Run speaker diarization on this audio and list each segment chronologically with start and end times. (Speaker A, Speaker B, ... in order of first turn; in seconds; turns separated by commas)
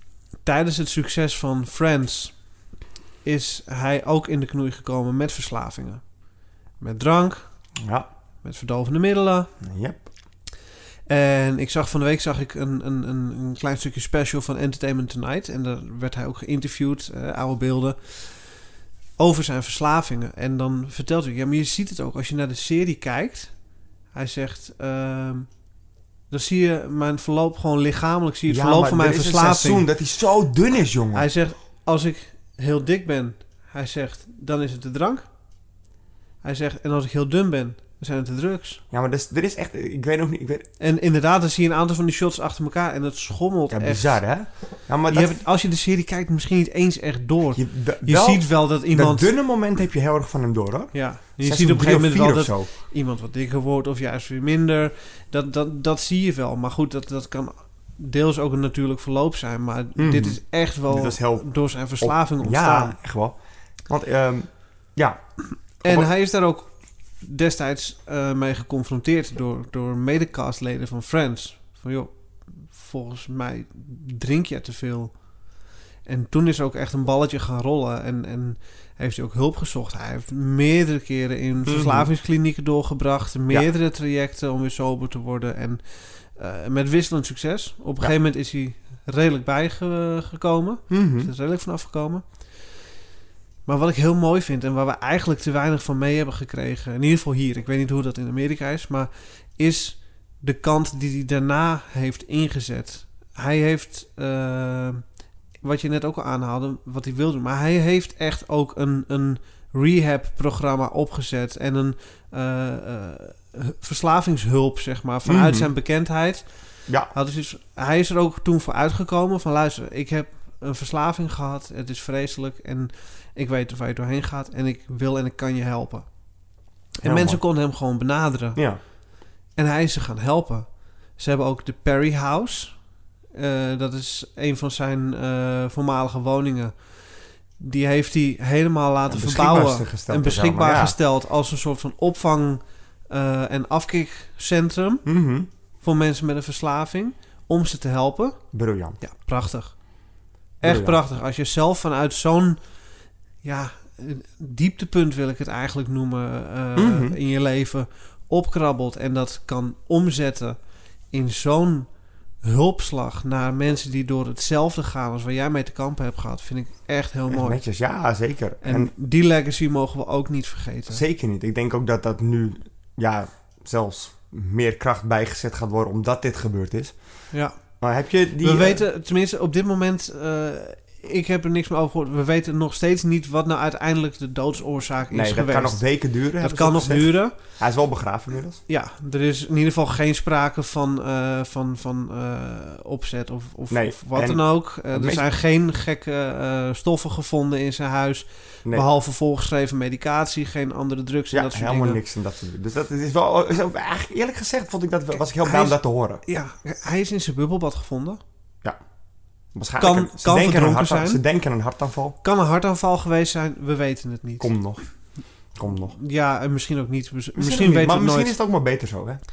Speaker A: 0.5-2.4, Speaker A: 3.2-6.0, Speaker A: 6.8-7.4, Speaker B: 7.8-8.1, Speaker A: 8.4-9.5, Speaker B: 9.6-10.0, Speaker A: 11.1-18.5, Speaker A: 19.2-23.5, Speaker A: 24.1-25.5, Speaker A: 26.3-29.9, Speaker B: 28.5-31.3, Speaker A: 31.1-35.3, Speaker A: 36.4-38.8, Speaker B: 38.9-40.7, Speaker A: 40.8-44.2, Speaker B: 43.7-45.4, Speaker A: 45.1-49.3, Speaker B: 47.5-52.7, Speaker A: 50.9-63.0, Speaker B: 60.0-61.5, Speaker B: 62.0-63.4, Speaker B: 63.9-65.2, Speaker B: 65.8-66.1, Speaker A: 65.8-66.7, Speaker A: 67.2-75.1, Speaker A: 76.1-92.3, Speaker B: 81.7-82.1, Speaker B: 90.9-91.3, Speaker A: 93.7-105.0, Speaker A: 105.6-116.5, Speaker B: 115.3-115.7, Speaker A: 117.1-126.1, Speaker A: 127.0-128.6, Speaker B: 127.0-127.4, Speaker A: 129.6-130.7, Speaker A: 131.2-132.8, Speaker A: 133.3-136.8, Speaker A: 137.6-145.1, Speaker B: 139.1-141.0, Speaker B: 145.1-145.5, Speaker A: 145.8-148.4, Speaker B: 148.5-149.0, Speaker A: 149.0-149.8, Speaker A: 150.6-152.6, Speaker B: 150.6-151.0, Speaker A: 153.4-160.6, Speaker B: 156.8-157.2, Speaker A: 161.1-161.9, Speaker A: 162.4-167.6, Speaker B: 167.3-168.9, Speaker A: 168.6-171.0, Speaker B: 170.9-177.0, Speaker B: 177.8-178.8, Speaker A: 178.4-185.8, Speaker B: 185.1-188.6, Speaker A: 186.4-187.4, Speaker A: 188.7-202.0, Speaker B: 193.7-195.2, Speaker B: 201.3-206.2, Speaker A: 205.4-208.2, Speaker B: 209.6-212.2, Speaker A: 209.8-211.2, Speaker A: 212.2-214.5, Speaker B: 214.4-214.8, Speaker B: 215.6-216.0, Speaker A: 215.9-218.3, Speaker B: 217.3-219.2